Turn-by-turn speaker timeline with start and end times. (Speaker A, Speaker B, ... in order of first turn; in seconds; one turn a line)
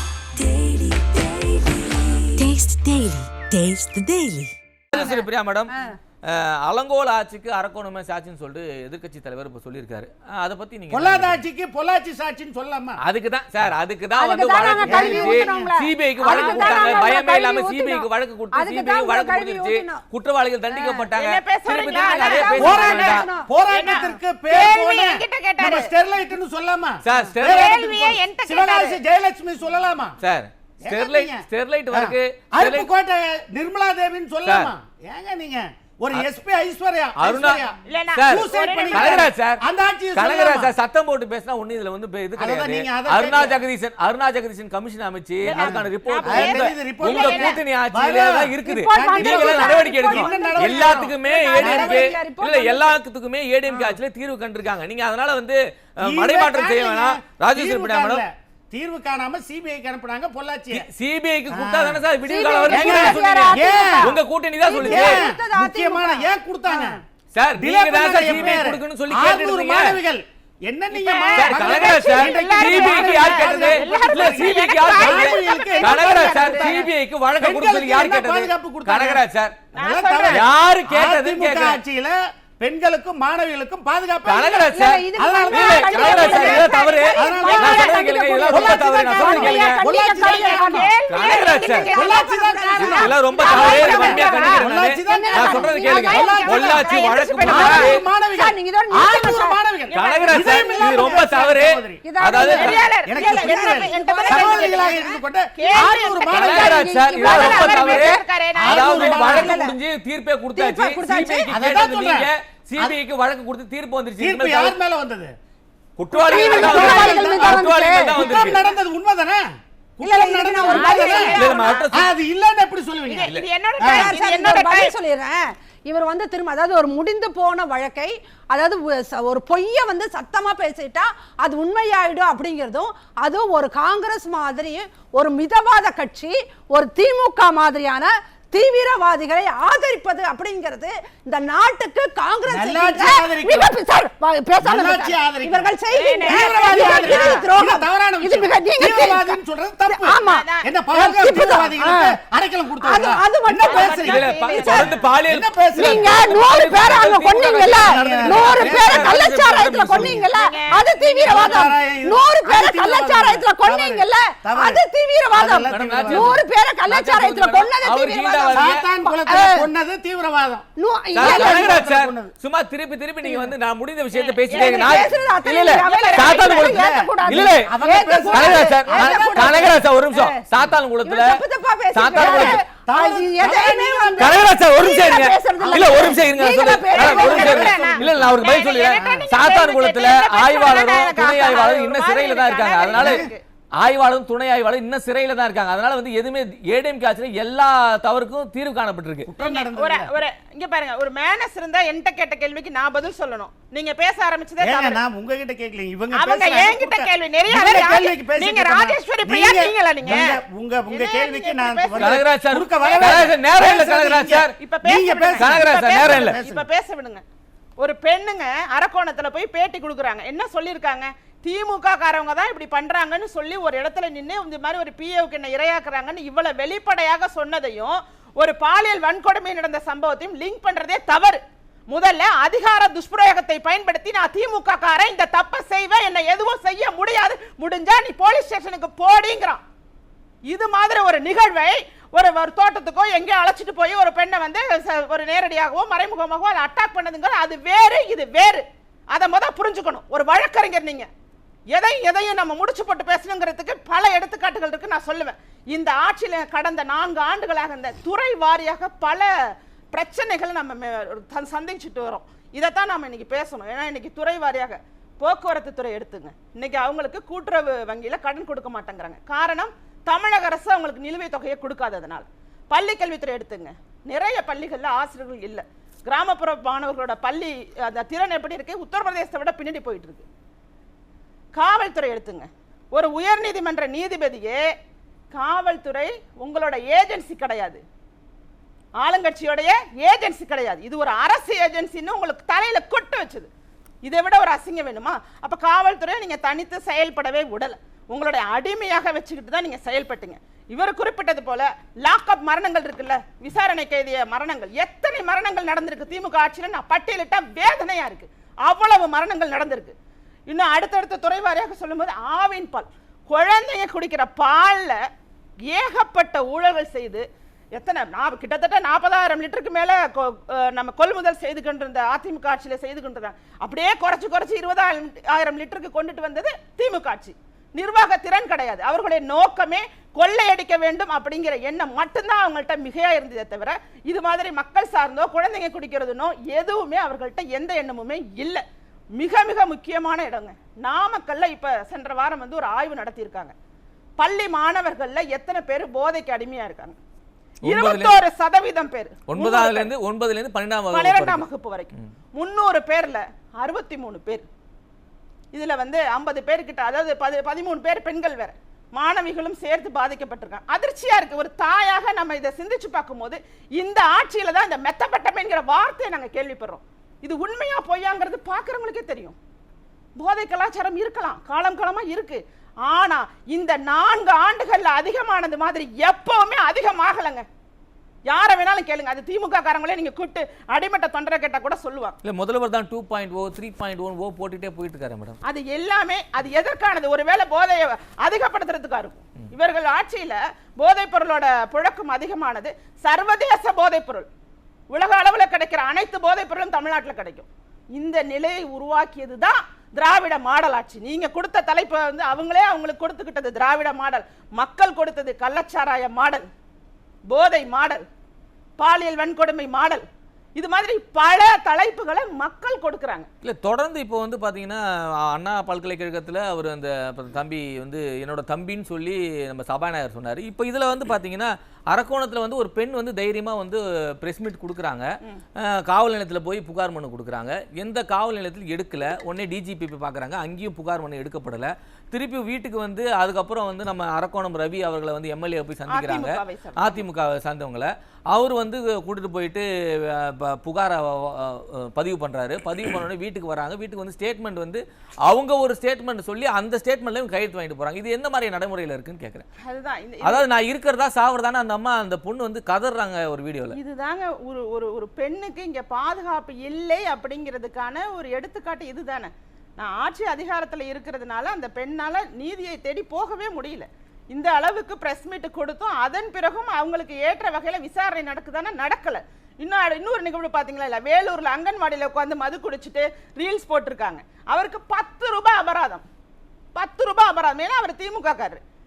Speaker A: 0.4-1.7
Speaker B: 2.4-4.5
Speaker C: 4.9-5.7
Speaker A: 4.9-6.0
Speaker C: 6.3-11.4
Speaker D: 10.9-13.0
Speaker C: 13.0-23.3
Speaker A: 14.1-20.0
Speaker D: 14.8-15.7
Speaker E: 16.3-17.1
Speaker A: 20.7-21.1
Speaker E: 21.2-23.2
Speaker A: 21.9-23.5
Speaker D: 22.6-30.2
Speaker E: 23.7-25.9
Speaker C: 27.0-27.7
Speaker E: 27.4-29.0
Speaker C: 30.2-32.9
Speaker D: 30.8-37.8
Speaker C: 34.5-34.7
Speaker C: 37.2-37.6
Speaker E: 37.9-39.3
Speaker C: 38.1-39.6
Speaker D: 38.3-40.7
Speaker C: 40.1-58.2
Speaker D: 42.4-43.6
Speaker D: 45.5-52.1
Speaker E: 45.5-47.6
Speaker A: 48.6-53.0
Speaker D: 56.0-60.9
Speaker C: 60.7-65.3
Speaker D: 61.5-62.0
Speaker A: 62.2-67.0
Speaker D: 62.7-64.2
Speaker D: 64.8-67.0
Speaker C: 67.3-69.9
Speaker D: 67.6-76.9
Speaker E: 70.9-76.8
Speaker C: 71.4-79.5
Speaker D: 77.4-79.2
Speaker E: 79.7-80.5
Speaker D: 79.8-87.8
Speaker C: 80.3-81.8
Speaker C: 84.2-89.8
Speaker A: 84.7-90.9
Speaker E: 87.4-87.9
Speaker D: 88.5-90.9
Speaker E: 89.3-94.6
Speaker C: 91.1-92.0
Speaker D: 91.9-96.8
Speaker A: 92.0-99.6
Speaker C: 92.8-98.0
Speaker E: 96.0-97.9
Speaker D: 97.5-102.1
Speaker E: 99.9-100.7
Speaker C: 99.9-102.9
Speaker A: 100.6-101.2
Speaker A: 102.0-105.0
Speaker E: 102.5-105.0
Speaker D: 103.1-106.8
Speaker E: 105.6-109.1
Speaker A: 105.7-108.2
Speaker C: 106.3-114.8
Speaker D: 108.6-109.6
Speaker A: 108.9-109.8
Speaker A: 110.5-111.6
Speaker D: 111.5-113.0
Speaker D: 114.2-115.3
Speaker C: 116.0-118.7
Speaker A: 116.2-118.2
Speaker D: 116.3-119.5
Speaker D: 120.0-121.3
Speaker A: 120.0-121.7
Speaker E: 120.7-121.9
Speaker C: 121.3-122.1
Speaker D: 121.9-124.1
Speaker E: 123.1-125.0
Speaker A: 123.9-152.2
Speaker D: 142.5-143.7
Speaker D: 144.6-145.7
Speaker E: 145.9-147.4
Speaker D: 146.2-156.3
Speaker E: 150.2-150.7
Speaker A: 152.8-154.2
Speaker E: 153.7-155.0
Speaker C: 154.1-160.2
Speaker A: 155.8-169.7
Speaker D: 157.7-159.2
Speaker D: 159.9-160.2
Speaker E: 160.3-161.5
Speaker D: 161.2-166.4
Speaker C: 165.7-168.9
Speaker D: 168.5-170.7
Speaker A: 170.8-171.8
Speaker C: 171.2-177.7
Speaker D: 171.2-172.3
Speaker A: 173.2-173.5
Speaker E: 174.1-175.1
Speaker A: 174.5-180.4
Speaker E: 175.7-176.6
Speaker D: 176.8-179.8
Speaker C: 178.3-181.4
Speaker A: 181.0-187.7
Speaker C: 181.9-182.6
Speaker D: 182.1-184.4
Speaker C: 184.2-193.2
Speaker D: 185.9-186.2
Speaker D: 186.9-188.4
Speaker E: 187.0-193.4
Speaker D: 189.0-189.3
Speaker D: 192.9-193.3
Speaker C: 193.8-199.3
Speaker D: 199.3-200.1
Speaker E: 199.4-205.0
Speaker D: 204.6-216.7
Speaker E: 206.1-210.4
Speaker E: 210.9-212.2
Speaker C: 212.0-214.6
Speaker E: 212.8-213.7
Speaker E: 214.6-217.2
Speaker C: 215.4-216.4
Speaker E: 217.8-239.6
Speaker E: 240.5-251.1
Speaker E: 251.7-259.3
Speaker E: 259.9-280.2
Speaker E: 281.6-284.6
Speaker E: 285.3-287.8
Speaker E: 289.0-293.5
Speaker E: 294.0-309.9
Speaker E: 310.5-315.0
Speaker E: 315.7-317.2
Speaker E: 317.8-338.6
Speaker E: 339.2-343.5
Speaker E: 344.2-347.0
Speaker C: 347.6-348.2
Speaker E: 347.6-349.9
Speaker C: 349.3-352.1
Speaker E: 350.9-354.5
Speaker E: 355.5-369.4
Speaker E: 370.2-377.4
Speaker E: 378.3-382.2
Speaker C: 382.2-385.4
Speaker E: 385.4-394.3
Speaker E: 394.9-406.5
Speaker E: 407.3-408.1
Speaker E: 408.8-410.1
Speaker E: 410.6-413.3
Speaker C: 413.4-425.1
Speaker C: 425.7-449.5
Speaker E: 435.9-437.0
Speaker E: 449.6-450.5
Speaker C: 450.2-453.8
Speaker E: 453.7-476.0
Speaker E: 476.8-478.6